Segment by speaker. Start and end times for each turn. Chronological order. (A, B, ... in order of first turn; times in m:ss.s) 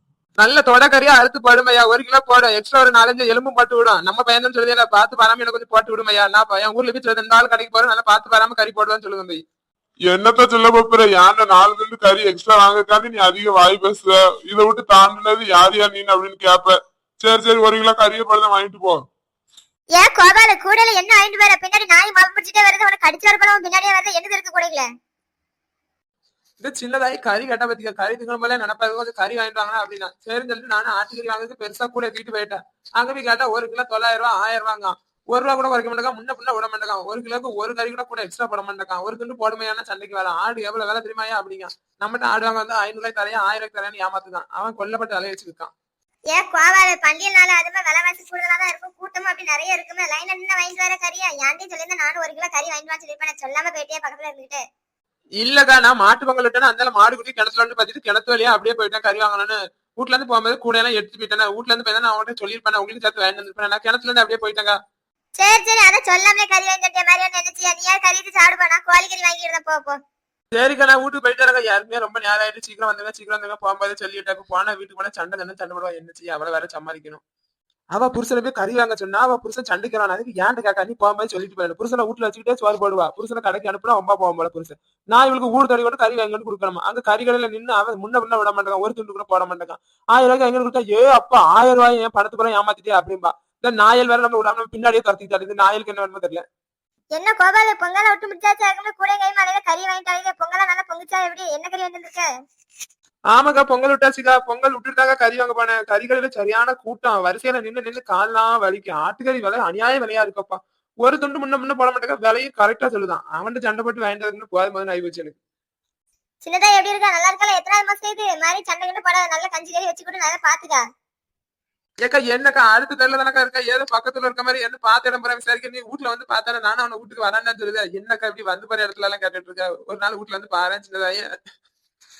0:00.4-0:09.4 A
0:10.1-0:19.0 B
0:20.0-0:24.9 C
0:26.6-0:45.7 A
0:46.3-0:54.6 C
0:55.4-1:04.8 A
1:05.4-1:10.0 C
1:10.5-1:17.2 A
1:17.9-1:36.4 A
1:37.2-1:42.3 C
1:43.3-1:55.4 A
1:56.4-2:00.8 C
2:02.0-2:11.3 A